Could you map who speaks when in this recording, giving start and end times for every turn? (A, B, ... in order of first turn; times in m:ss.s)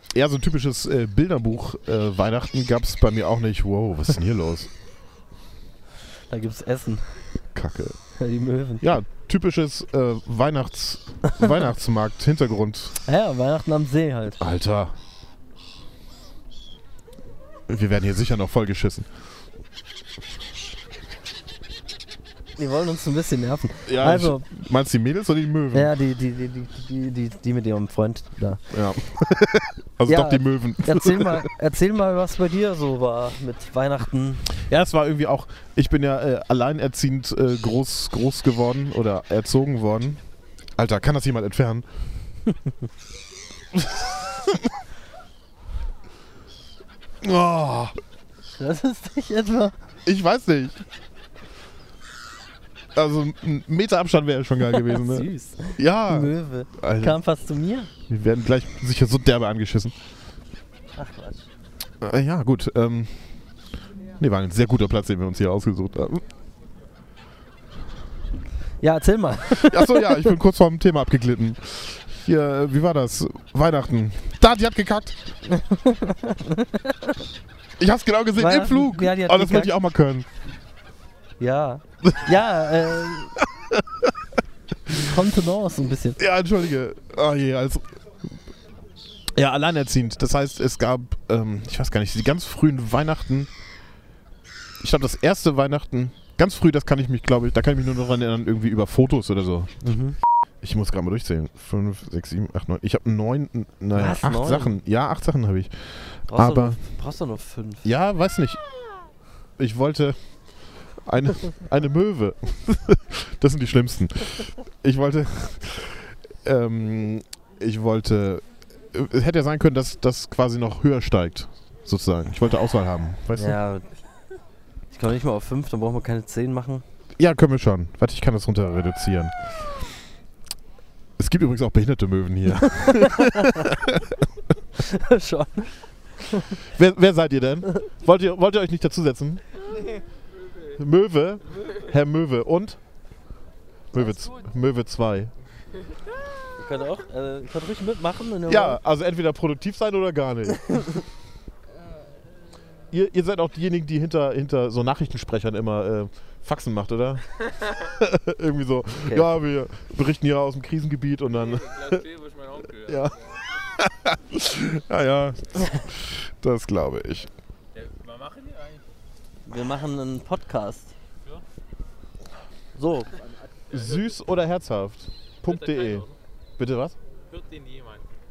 0:00.1-0:04.7 A
0:06.3-0:07.2 B
0:07.5-0:08.0 A
0:08.2-0:08.8 B
0:08.8-0:13.0 A
0:13.0-0:14.4 B
0:14.4-0:15.0 A
0:17.7-0:19.1 A
0:22.6-0:24.4 B
0:23.8-0:25.9 A
0:25.7-0:28.6 B
0:28.7-0:31.5 A
0:30.1-0:34.5 B
0:34.6-0:40.2 A
0:40.8-0:41.8 A
0:43.7-0:44.6 A
0:47.2-0:48.0 A
0:48.5-0:49.7 B
0:50.0-0:50.8 A
0:53.0-0:57.2 A
0:54.6-0:57.9 B
0:58.1-0:59.9 A
1:01.0-1:01.4 B
1:02.0-1:03.3 A
1:04.2-1:06.2 A
1:08.8-1:10.3 B
1:09.5-1:15.2 A
1:15.4-1:17.2 B
1:17.8-1:20.3 A
1:18.4-1:19.8 B
1:21.4-1:23.3 B
1:23.4-1:24.1 A
1:24.9-1:25.1 A
1:24.9-1:26.2 B
1:26.2-1:28.0 A
1:29.4-1:33.5 A
1:34.8-1:39.8 A
1:39.8-1:40.2 B
1:40.6-1:46.8 A
1:43.9-1:44.7 B
1:46.3-1:47.8 B
1:47.8-1:48.6 A
1:49.6-1:50.2 A
1:51.0-2:03.6 A
2:03.4-2:03.8 B
2:04.9-2:06.8 B
2:07.2-2:09.6 A
2:11.2-2:14.3 A
2:12.6-2:13.7 B
2:14.7-2:16.6 B
2:16.7-2:19.4 A
2:19.7-2:20.8 C
2:20.8-2:22.8 A
2:23.9-2:25.3 A
2:26.6-2:28.8 B
2:28.5-2:31.0 A
2:32.9-2:42.0 A
2:41.3-2:43.4 C
2:42.9-2:43.1 A
2:43.8-2:47.3 A
2:47.7-2:48.8 C
2:49.4-2:50.9 B
2:52.7-2:53.1 B
2:53.1-2:54.2 C
2:53.7-2:56.0 A
2:55.4-2:56.1 C
2:56.6-2:56.9 A
2:57.3-2:58.1 C